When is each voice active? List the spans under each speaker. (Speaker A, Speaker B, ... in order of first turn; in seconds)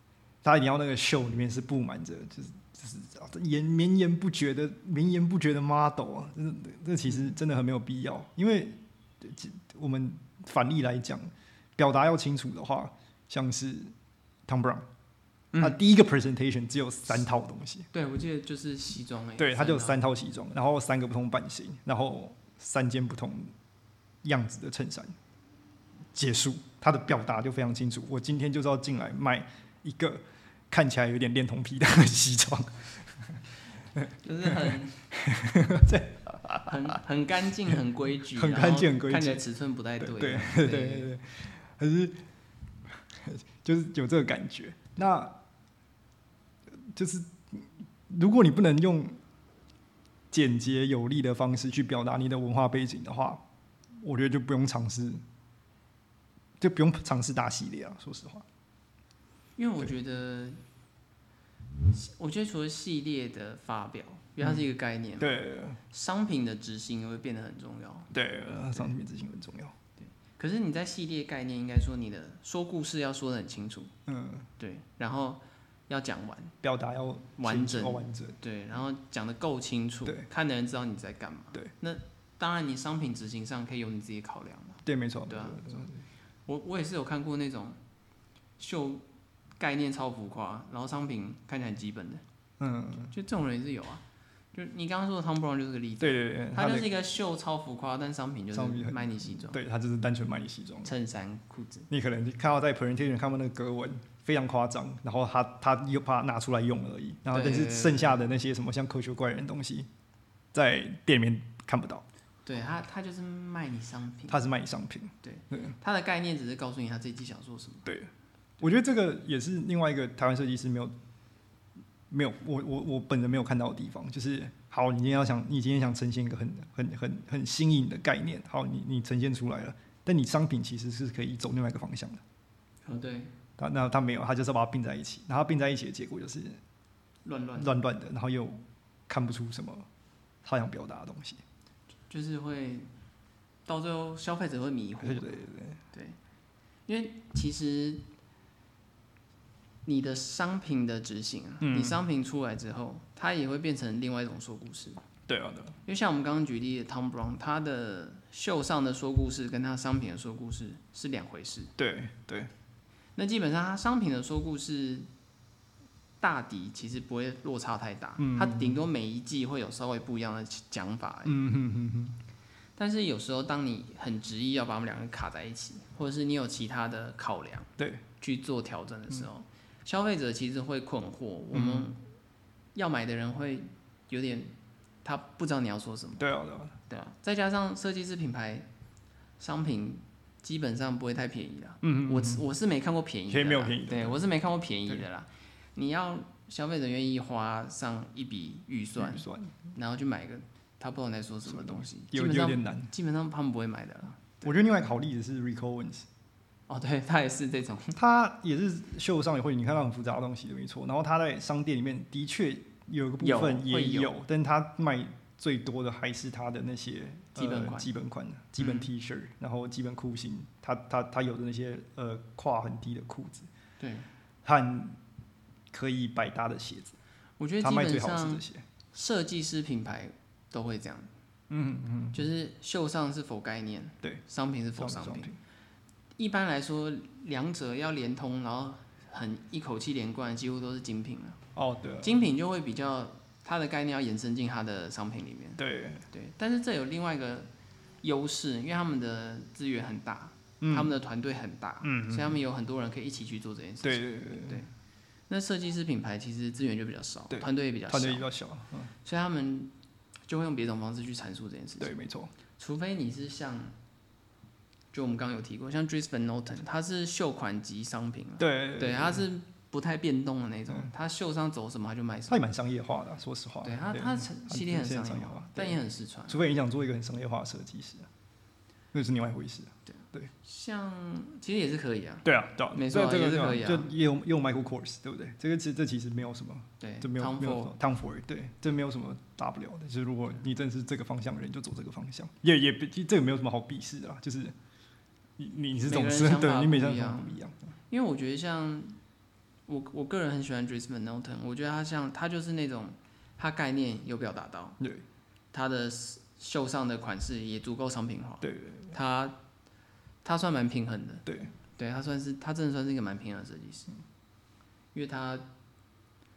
Speaker A: 0.4-13.9, 14.5-14.8, 15.6-17.9, 19.4-23.5, 24.2-25.1, 26.1-33.4, 34.0-37.0, 38.3-39.4, 40.0-42.2, 43.1-45.4, 46.8-49.2, 50.3-53.4, 54.0-55.2, 56.6-58.4, 65.2-65.8, 68.1-69.7, 74.1-74.5, 76.6-78.4, 84.8-86.0, 92.6-93.1, 96.0-96.9, 98.5-100.9, 101.9-109.9, 110.5-112.0, 114.3-115.8, 117.8-118.1, 118.6-120.9, 122.1-132.2, 133.6-136.6, 137.6-139.9, 140.4-141.4, 145.0-145.8, 151.6-152.0, 155.3-155.8, 161.8-162.5, 168.2-168.8, 171.2-172.2, 177.8-178.0, 181.5-181.9, 186.2-186.7, 191.8-192.4, 193.3-194.2, 199.0-199.5, 201.5-202.9, 204.4-206.1, 207.9-223.5, 224.4-225.0, 225.7-226.9, 227.6-228.6, 231.5-232.2, 234.8-235.4, 241.5-242.2, 245.6-246.0, 250.6-250.9, 251.8-252.4, 253.8-254.6, 257.3-258.9, 261.8-262.3, 268.4-269.2, 272.3-278.1, 278.9-280.3, 282.2-294.5, 295.4-297.6, 308.4-308.9, 311.2-311.5
Speaker B: 15.5-15.8, 17.9-20.0, 34.2-35.0, 36.6-41.1, 59.6-60.6, 61.9-68.1, 70.0-73.9, 74.6-76.5, 77.4-85.9, 86.5-87.8, 88.6-89.0, 89.6-92.2, 93.1-99.6, 100.8-101.9, 107.3-108.2, 112.5-114.4, 115.2-117.9, 132.8-133.3, 137.2-137.8, 142.1-142.9, 143.7-145.4, 146.9-148.0, 149.8-155.0, 155.8-161.7, 163.2-165.1, 166.2-171.4, 172.8-182.0, 182.7-186.2, 186.9-188.7, 189.4-204.5, 206.7-208.0, 213.2-214.1, 217.3-217.9, 218.6-218.9, 223.8-224.1, 227.4-231.1, 232.1-235.3, 236.2-241.4, 242.0-247.5, 248.0-254.7, 255.3-258.2, 259.0-259.7, 260.3-261.9, 262.6-263.7, 264.9-272.4, 273.6-276.4, 279.9-283.9, 286.8-287.7, 295.8-297.4, 297.9-298.9, 299.7-304.8, 305.5-309.4, 310.2-311.2, 311.8-313.9, 314.9-315.5